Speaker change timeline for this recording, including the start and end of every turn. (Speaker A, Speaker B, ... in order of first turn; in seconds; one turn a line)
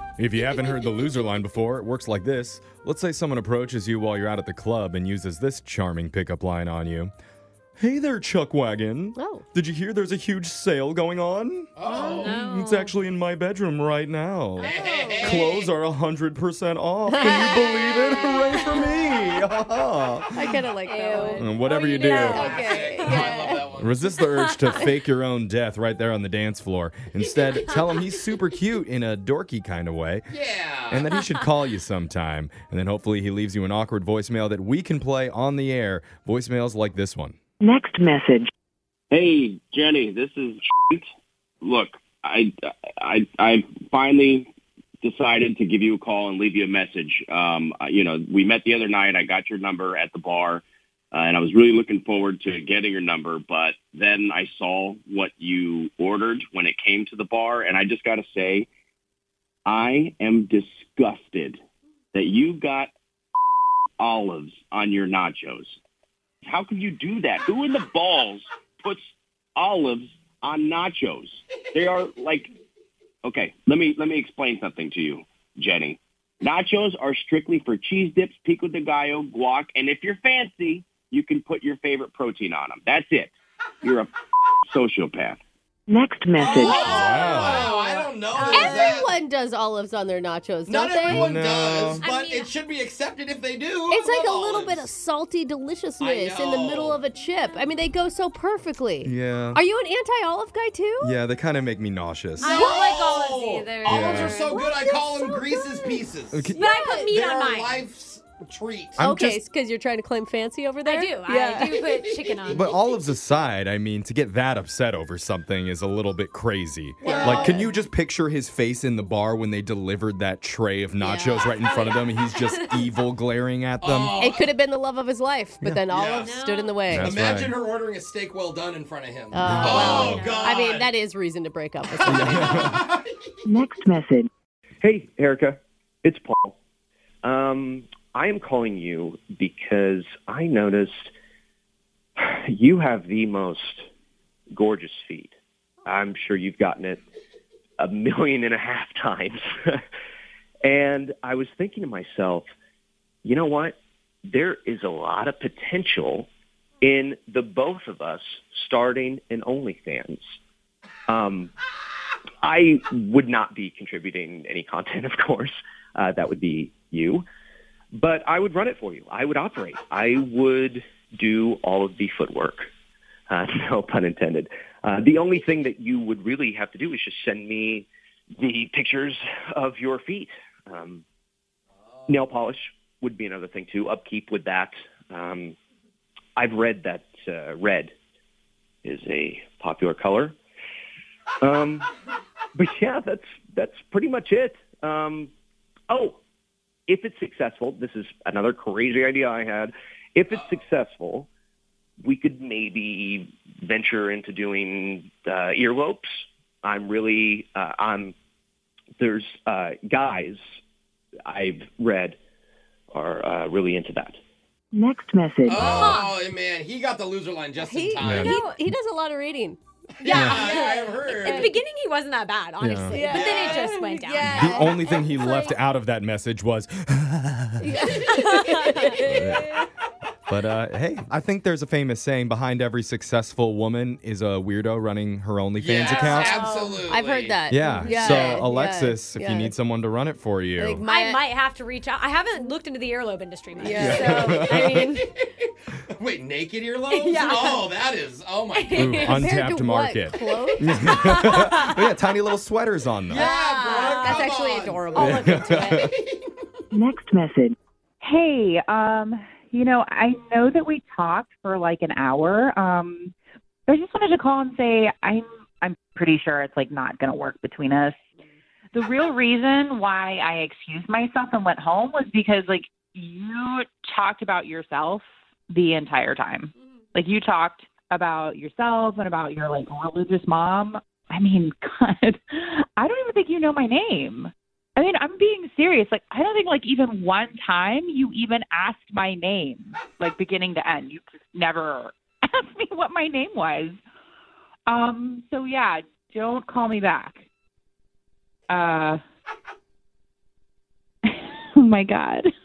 Speaker A: 0.2-7.1
Speaker A: 7.8-20.6
Speaker B: 9.2-9.4
Speaker C: 11.8-12.4
Speaker D: 11.8-12.9
Speaker C: 14.6-15.7
Speaker D: 14.6-15.4
Speaker B: 17.1-19.0
Speaker C: 17.2-17.5
Speaker B: 20.3-23.6
Speaker D: 20.9-23.4
Speaker A: 21.4-22.5
Speaker C: 22.2-24.1
Speaker A: 23.8-30.3
Speaker D: 24.1-24.8
Speaker D: 27.7-28.0
Speaker C: 30.3-31.0
Speaker A: 30.9-37.4
Speaker E: 37.6-38.5
Speaker F: 39.1-41.0
Speaker F: 41.6-44.5
Speaker F: 45.0-58.7
Speaker F: 59.6-61.6
Speaker F: 62.1-62.9
Speaker F: 64.0-65.8
Speaker F: 66.4-72.5
Speaker F: 73.2-84.1
Speaker F: 84.7-85.4
Speaker E: 85.9-86.9
Speaker C: 86.4-89.1
Speaker B: 86.8-87.5
Speaker A: 86.9-87.7
Speaker D: 87.2-89.0
Speaker B: 88.5-91.3
Speaker C: 90.7-94.9
Speaker A: 91.0-92.0
Speaker D: 92.0-92.5
Speaker B: 93.9-101.2
Speaker C: 96.0-97.0
Speaker A: 99.0-99.6
Speaker A: 101.0-102.6
Speaker C: 102.4-109.0
Speaker D: 102.4-104.6
Speaker A: 103.8-104.4
Speaker B: 104.5-106.0
Speaker A: 106.3-106.6
Speaker D: 106.5-107.8
Speaker B: 106.7-107.0
Speaker A: 109.0-109.4
Speaker B: 109.0-111.8
Speaker D: 110.8-113.0
Speaker C: 111.8-112.5
Speaker A: 112.5-124.2
Speaker B: 117.0-117.7
Speaker C: 117.1-117.6
Speaker B: 121.0-121.5
Speaker D: 121.6-122.7
Speaker C: 123.8-124.5
Speaker B: 124.2-127.2
Speaker C: 125.9-126.4
Speaker D: 126.2-126.7
Speaker A: 126.9-127.5
Speaker C: 127.0-130.9
Speaker B: 129.3-132.6
Speaker A: 129.4-130.2
Speaker D: 129.6-130.6
Speaker A: 132.1-132.8
Speaker C: 132.1-133.1
Speaker E: 133.4-134.3
Speaker G: 134.8-136.5
Speaker G: 137.2-141.1
Speaker G: 142.2-143.8
Speaker G: 144.5-145.3
Speaker G: 145.8-147.0
Speaker G: 147.8-149.8
Speaker G: 150.6-152.5
Speaker G: 153.2-153.8
Speaker G: 154.3-156.3
Speaker G: 156.8-160.2
Speaker G: 161.1-161.5
Speaker G: 162.4-167.2
Speaker G: 167.9-172.7
Speaker G: 173.3-177.9
Speaker G: 178.4-181.0
Speaker G: 182.1-185.6
Speaker G: 186.3-187.9
Speaker G: 188.8-190.3
Speaker G: 191.4-191.9
Speaker G: 192.5-195.3
Speaker G: 195.9-196.2
Speaker G: 196.9-201.3
Speaker G: 202.0-208.1
Speaker G: 209.0-210.4
Speaker G: 211.3-212.2
Speaker G: 212.9-214.2
Speaker E: 214.7-215.6
Speaker C: 215.4-218.3
Speaker A: 215.5-216.0
Speaker D: 215.6-216.2
Speaker B: 217.6-219.6
Speaker A: 218.0-218.5
Speaker D: 218.2-218.6
Speaker C: 220.0-221.6
Speaker D: 220.0-225.3
Speaker A: 220.1-220.4
Speaker B: 221.1-221.6
Speaker A: 222.6-223.0
Speaker B: 222.9-225.2
Speaker C: 223.0-223.8
Speaker A: 224.2-227.8
Speaker B: 227.6-229.7
Speaker D: 228.3-228.9
Speaker A: 229.0-229.6
Speaker A: 230.3-236.4
Speaker C: 235.6-238.4
Speaker D: 235.8-236.8
Speaker B: 236.9-239.5
Speaker A: 237.5-240.8
Speaker B: 240.6-241.2
Speaker D: 240.8-245.0
Speaker C: 243.6-249.3
Speaker B: 243.6-244.4
Speaker A: 243.7-245.0
Speaker D: 246.9-247.8
Speaker D: 248.5-249.3
Speaker A: 248.8-253.2
Speaker B: 249.1-251.0
Speaker D: 250.9-251.6
Speaker C: 253.1-256.3
Speaker D: 253.1-254.2
Speaker B: 253.6-255.0
Speaker D: 254.9-255.9
Speaker A: 255.0-255.9
Speaker E: 256.7-257.6
Speaker H: 258.0-263.1
Speaker H: 263.7-268.0
Speaker H: 268.7-293.8
Speaker H: 294.7-297.2
Speaker H: 298.5-299.0
Speaker H: 301.1-302.3